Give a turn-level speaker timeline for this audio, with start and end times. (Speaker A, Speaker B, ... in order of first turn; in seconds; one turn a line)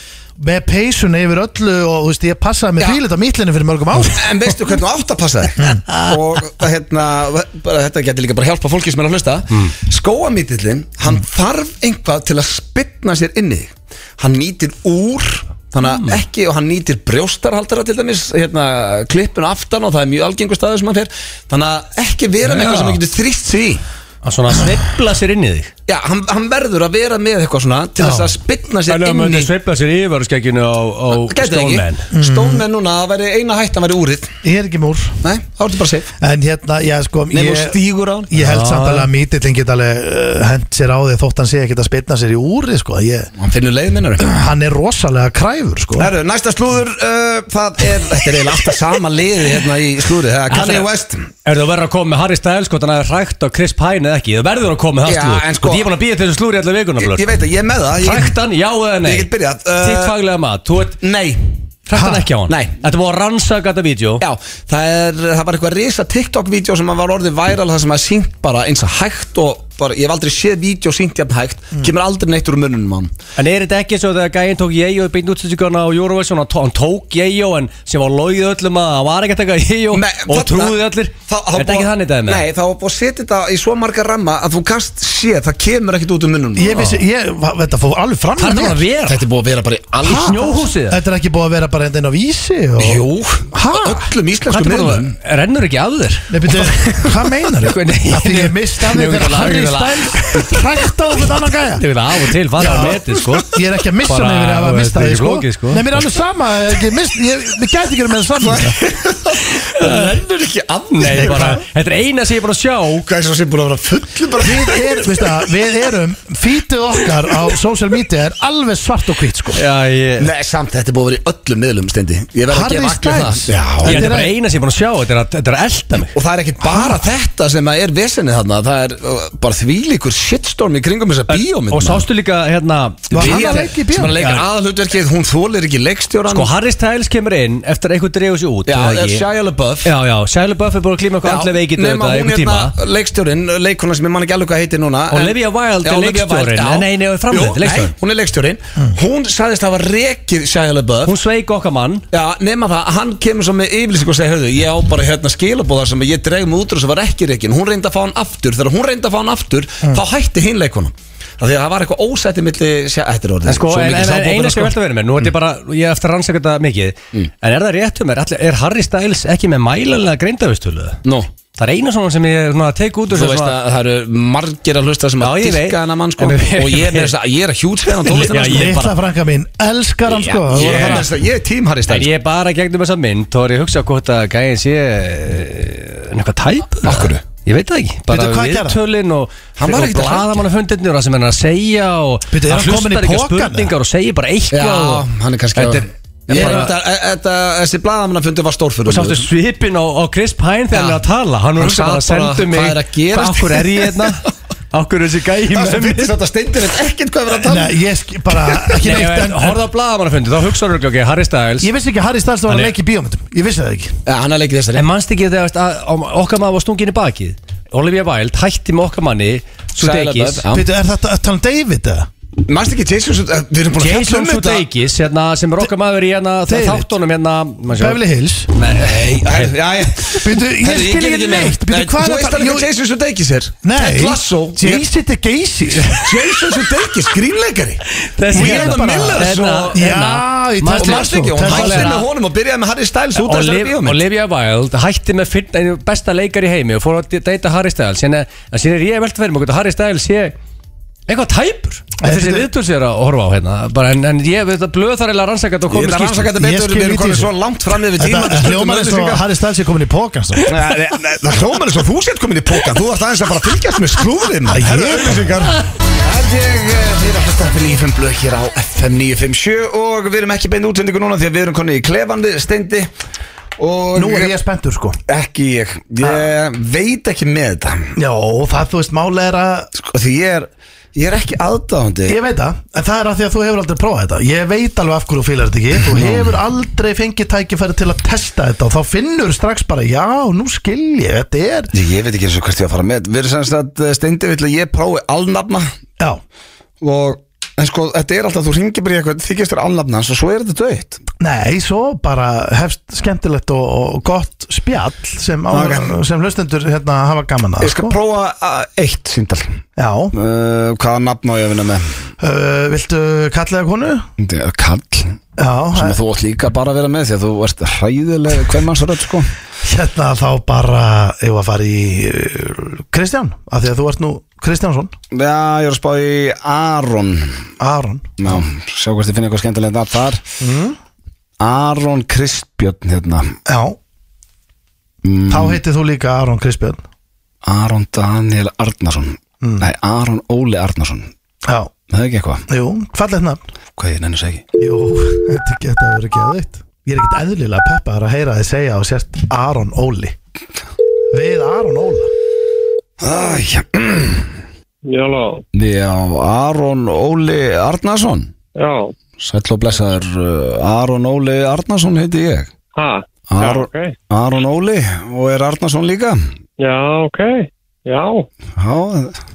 Speaker A: 0.4-4.5
Speaker B: 4.0-23.8
Speaker A: 5.6-5.9
Speaker C: 15.8-16.2
Speaker C: 22.4-23.0
Speaker C: 24.2-25.7
Speaker B: 25.9-29.5
Speaker A: 28.0-28.3
Speaker C: 28.9-32.0
Speaker B: 31.1-34.3
Speaker A: 32.1-32.6
Speaker A: 34.4-35.2
Speaker B: 35.2-36.1
Speaker A: 36.2-37.8
Speaker B: 37.3-38.3
Speaker A: 38.3-43.3
Speaker C: 38.4-39.1
Speaker B: 43.4-44.2
Speaker A: 44.2-46.1
Speaker B: 46.0-51.3
Speaker C: 50.5-50.9
Speaker C: 51.5-57.3
Speaker B: 55.0-55.9
Speaker B: 57.0-58.4
Speaker C: 58.0-59.3
Speaker B: 59.0-60.1
Speaker C: 59.8-61.0
Speaker B: 61.0-61.4
Speaker C: 61.9-64.2
Speaker A: 61.9-62.3
Speaker B: 62.5-62.7
Speaker B: 64.2-73.1
Speaker C: 73.4-82.4
Speaker B: 79.9-86.7
Speaker A: 86.6-88.8
Speaker C: 86.7-87.0
Speaker C: 88.4-89.2
Speaker B: 89.1-90.5
Speaker C: 90.0-91.0
Speaker A: 90.0-94.1
Speaker B: 92.8-95.2
Speaker C: 94.5-97.1
Speaker A: 96.3-101.8
Speaker C: 97.6-100.5
Speaker C: 101.8-103.5
Speaker A: 102.6-108.8
Speaker B: 102.7-103.2
Speaker C: 104.1-106.0
Speaker B: 108.4-111.6
Speaker C: 109.6-110.2
Speaker C: 110.9-113.0
Speaker A: 111.1-111.6
Speaker B: 113.0-115.5
Speaker A: 114.4-119.6
Speaker C: 119.6-120.3
Speaker B: 120.2-124.1
Speaker A: 122.5-124.3
Speaker C: 123.8-126.1
Speaker B: 126.1-132.1
Speaker A: 126.6-127.0
Speaker C: 131.3-134.4
Speaker A: 133.1-134.1
Speaker B: 133.1-136.5
Speaker C: 136.3-139.2
Speaker B: 138.7-139.9
Speaker C: 139.8-142.7
Speaker B: 141.2-151.1
Speaker C: 145.1-147.9
Speaker C: 151.1-152.0
Speaker B: 152.1-164.8
Speaker C: 163.5-171.0
Speaker C: 171.6-173.6
Speaker B: 173.1-178.7
Speaker C: 175.2-177.1
Speaker C: 178.1-178.9
Speaker A: 178.3-181.1
Speaker B: 180.1-182.1
Speaker C: 180.5-181.1
Speaker C: 181.9-195.0
Speaker B: 186.8-187.2
Speaker A: 188.1-188.8
Speaker B: 189.6-190.4
Speaker A: 192.3-193.7
Speaker B: 194.5-199.3
Speaker C: 195.6-196.7
Speaker A: 196.3-196.6
Speaker C: 198.9-206.1
Speaker B: 200.7-201.0
Speaker B: 201.6-204.1
Speaker B: 205.5-207.8
Speaker A: 207.4-209.6
Speaker C: 208.8-211.7
Speaker A: 211.6-213.9
Speaker B: 214.1-214.9
Speaker C: 214.8-220.4
Speaker B: 219.8-220.7
Speaker A: 220.5-222.1
Speaker B: 222.5-224.7
Speaker C: 223.8-228.0
Speaker A: 226.5-226.9
Speaker A: 227.7-228.5
Speaker C: 228.6-229.5
Speaker B: 228.8-234.8
Speaker A: 230.2-232.7
Speaker A: 233.6-236.1
Speaker B: 236.0-239.8
Speaker C: 238.0-242.0
Speaker A: 238.3-242.0
Speaker B: 240.8-244.0
Speaker C: 243.2-250.3
Speaker C: 251.1-256.3
Speaker A: 252.0-252.5
Speaker B: 255.7-259.2
Speaker A: 256.4-257.3
Speaker A: 258.0-260.5
Speaker B: 260.4-272.9
Speaker A: 264.5-265.5
Speaker B: 273.6-274.3
Speaker A: 273.9-275.0
Speaker B: 275.1-277.9
Speaker A: 276.0-276.3
Speaker A: 278.0-279.7
Speaker B: 279.8-282.2
Speaker A: 282.1-291.7
Speaker B: 285.9-286.4
Speaker B: 291.7-295.7
Speaker B: 296.8-301.0
Speaker A: 301.2-308.0
Speaker B: 305.5-306.0
Speaker B: 307.6-309.6
Speaker A: 309.8-310.1
Speaker B: 310.1-312.0
Speaker A: 312.2-314.1
Speaker B: 314.2-315.2
Speaker A: 315.4-316.0
Speaker B: 315.7-319.3
Speaker A: 319.6-324.9
Speaker B: 325.1-327.5
Speaker A: 327.6-328.4
Speaker B: 328.2-330.2
Speaker A: 330.4-330.8
Speaker B: 331.4-333.4
Speaker A: 333.5-333.8
Speaker B: 335.0-335.6
Speaker A: 335.3-336.8
Speaker B: 337.4-341.1
Speaker A: 339.4-339.7
Speaker A: 341.5-341.7
Speaker B: 341.9-342.4
Speaker A: 342.5-343.4
Speaker B: 343.8-344.4
Speaker A: 344.6-350.1
Speaker A: 351.1-352.1
Speaker B: 353.0-354.4
Speaker D: 354.9-355.4
Speaker B: 355.5-358.3
Speaker D: 358.6-358.9
Speaker B: 359.2-362.5
Speaker D: 362.8-364.0
Speaker B: 363.3-366.2
Speaker D: 366.6-368.3
Speaker B: 368.6-369.2